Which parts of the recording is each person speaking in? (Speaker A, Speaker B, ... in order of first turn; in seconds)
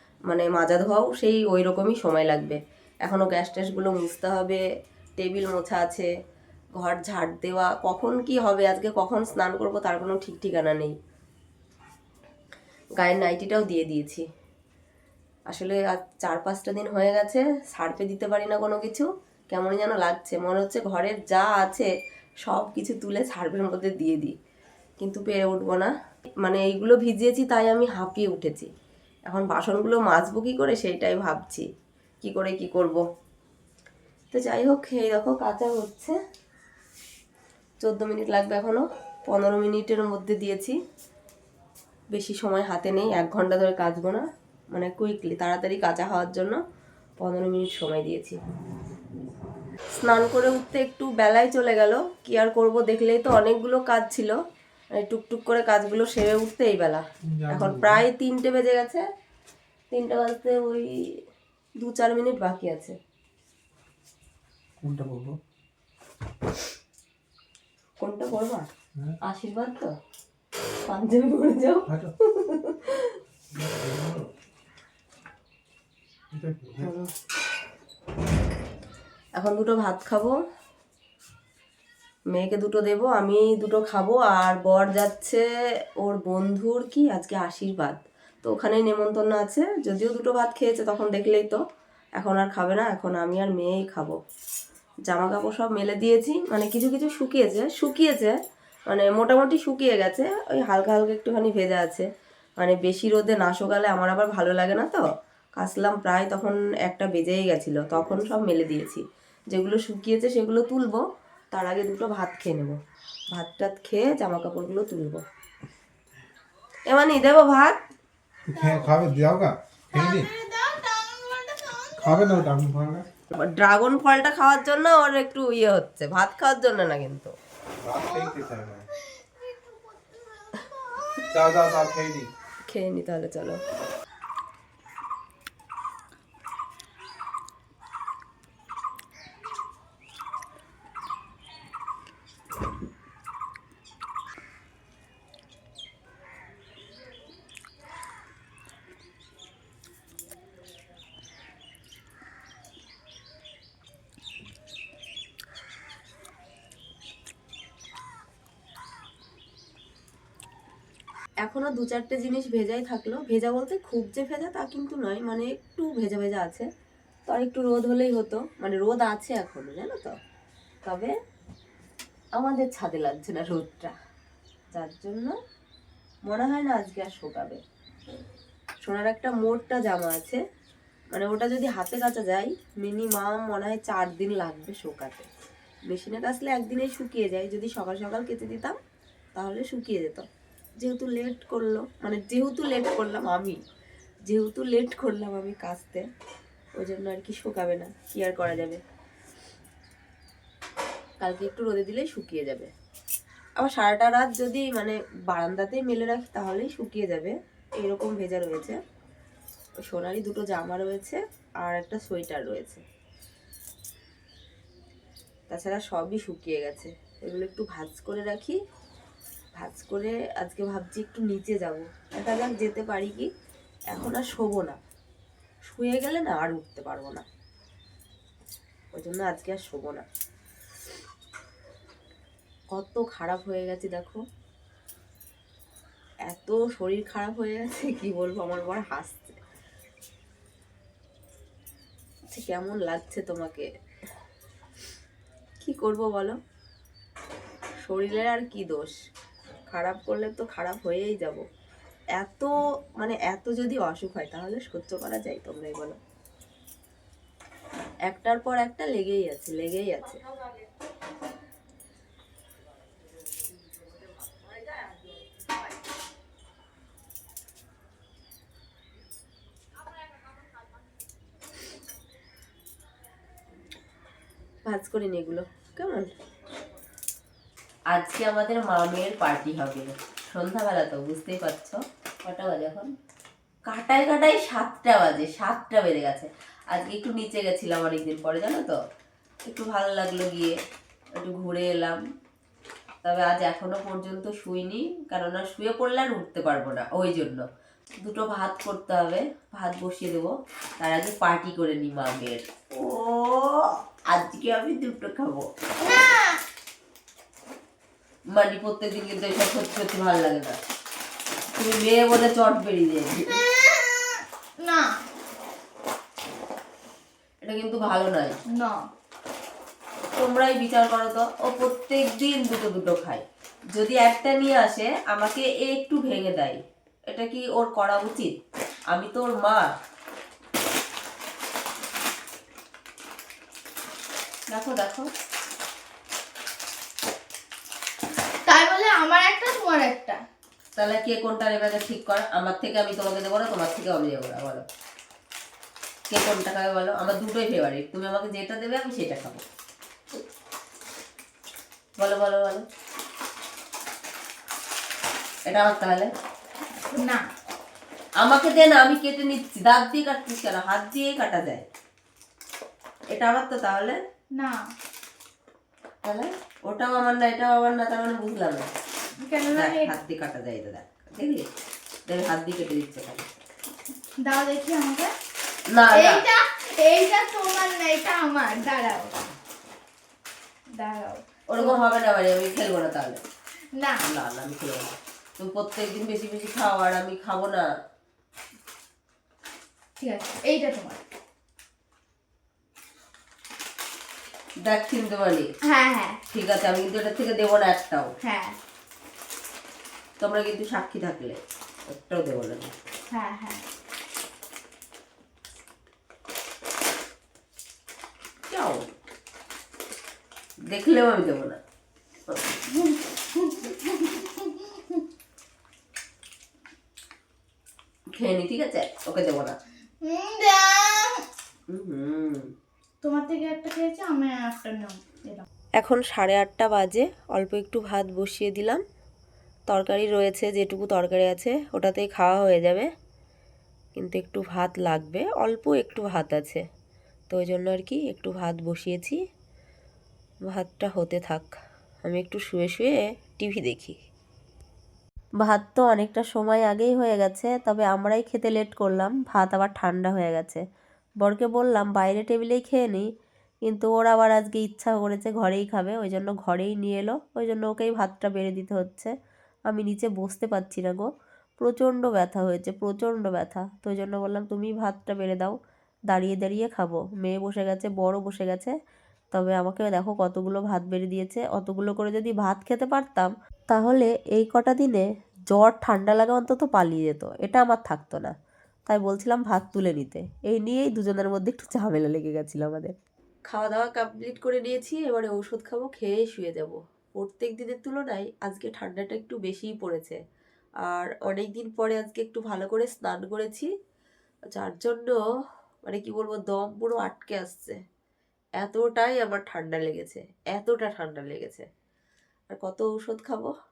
Speaker A: 0.3-4.6, 5.2-6.1, 6.8-10.9, 13.0-14.2, 15.5-21.9, 22.4-24.3, 25.0-25.9, 26.4-28.7, 29.3-31.6, 32.2-33.0, 34.3-36.1, 37.8-40.8, 42.1-46.6, 47.2-48.4, 50.0-54.3, 55.0-59.0, 59.9-60.9, 61.8-63.0, 68.0-68.7, 69.2-69.9, 70.9-73.2, 76.8-77.1, 79.3-80.3, 82.3-85.4, 86.0-91.6, 92.2-94.2, 95.1-98.3, 98.9-102.1, 102.6-105.0, 105.6-112.8, 113.3-115.2, 116.9-117.8, 123.3-127.3, 132.7-133.6, 161.4-166.7, 167.3-170.1, 170.8-171.1, 172.3-173.9, 174.7-175.3, 176.3-177.6, 178.8-180.4, 181.1-185.3, 185.9-188.8, 189.3-190.3, 190.8-193.6, 194.3-196.1, 196.8-198.8, 201.2-202.7, 203.6-208.8, 209.8-212.8, 215.5-218.6, 219.6-223.3, 223.9-224.8, 225.7-227.2, 228.9-230.1, 232.7-234.2, 236.3-239.4, 242.3-243.7, 245.6-246.4, 247.8-248.9, 249.7-251.4, 252.2-256.0, 258.1-260.2, 274.7-276.1, 277.9-282.9, 283.7-288.8, 289.4-290.6, 291.2-292.0, 293.0-297.4, 298.0-305.4, 308.3-310.6, 311.6-313.4, 317.4-318.3, 320.1-328.3, 328.9-329.7, 334.5-335.1, 340.8-344.6, 346.1-349.4, 352.0-352.6, 355.4-356.1, 358.2-361.6, 363.1-364.0, 366.0-368.7, 369.5-371.5, 372.1-373.3, 375.7-376.2, 381.5-383.2, 384.0-387.7, 394.6-395.5, 396.3-398.1, 400.2-401.4, 401.9-402.7, 408.5-408.9, 410.7-411.6, 418.1-419.6, 421.7-422.4, 425.8-428.8, 429.7-432.9, 434.0-436.6, 437.3-439.2, 440.4-441.5, 442.1-444.0, 445.4-450.6, 451.2-453.1, 453.6-459.1, 459.7-461.1, 461.6-465.6, 466.1-468.7, 469.3-478.3, 478.9-482.9, 483.5-490.2, 490.9-493.7, 494.5-495.2, 495.8-497.8, 498.6-501.7, 502.5-503.5
Speaker B: 57.2-58.0, 64.8-65.4, 73.5-74.3, 76.3-76.9, 118.5-120.3, 122.0-123.1, 127.8-128.8, 131.3-132.3
Speaker C: 118.5-119.1, 119.9-122.2, 127.9-128.4, 129.4-130.6, 305.8-306.4, 313.3-314.9, 318.5-318.8, 338.4-340.2, 356.8-357.2, 369.2-369.9, 374.2-375.1, 375.9-379.3, 380.7-381.8, 390.0-391.0, 395.7-396.2, 398.2-398.6, 403.1-403.6, 412.7-415.0, 420.0-421.2, 423.0-425.4